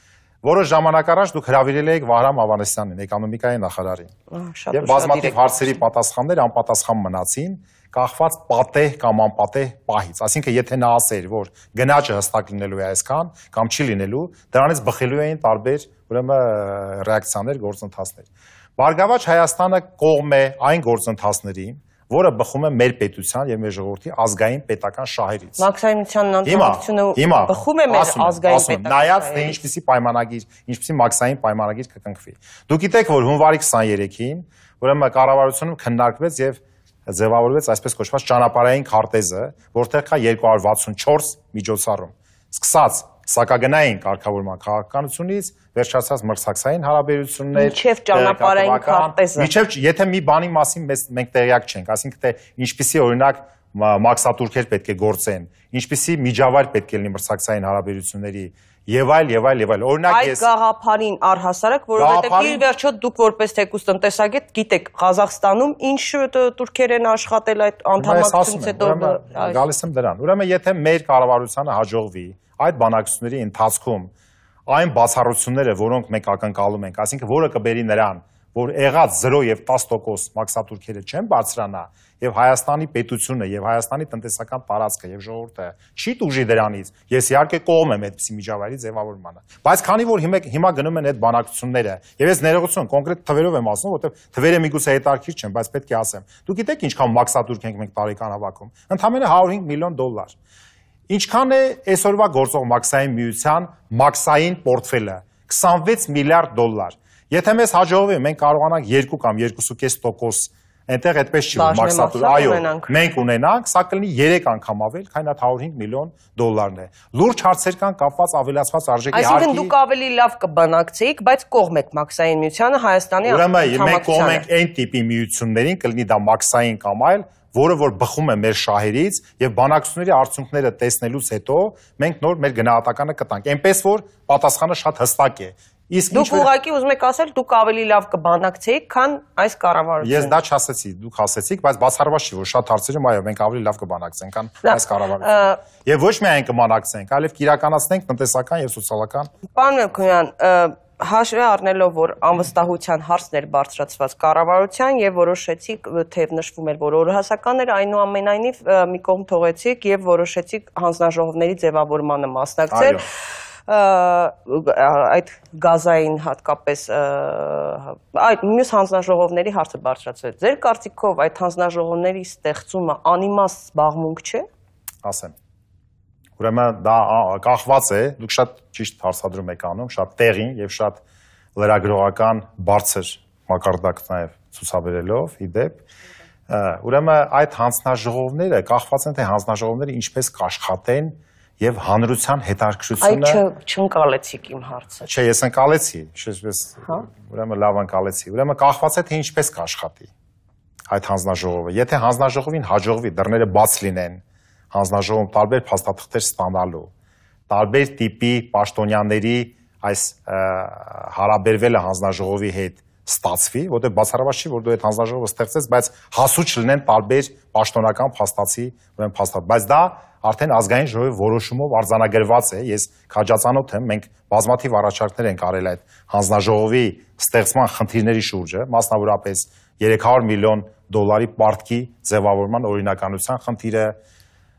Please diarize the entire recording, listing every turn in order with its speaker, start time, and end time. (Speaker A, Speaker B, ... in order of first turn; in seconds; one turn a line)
Speaker A: 0.4-4.1
Speaker B: 4.3-5.6
Speaker A: 4.7-25.6
Speaker B: 25.6-29.6
Speaker A: 26.4-60.5
Speaker B: 47.5-49.5
Speaker B: 60.1-69.6
Speaker A: 62.0-62.6
Speaker A: 68.0-74.1
Speaker A: 74.7-100.4
Speaker A: 101.1-119.7
Speaker B: 111.5-112.9
Speaker B: 119.1-124.4
Speaker A: 123.2-136.5
Speaker B: 136.1-140.3
Speaker A: 140.0-149.3
Speaker B: 144.6-145.6
Speaker B: 149.5-163.0
Speaker A: 162.7-163.0
Speaker B: 163.7-174.4
Speaker A: 175.0-175.3
Speaker A: 176.4-181.0
Speaker A: 181.6-185.8
Speaker A: 186.5-193.4
Speaker B: 193.0-195.1
Speaker A: 195.0-200.1
Speaker A: 200.9-206.9
Speaker A: 207.5-234.0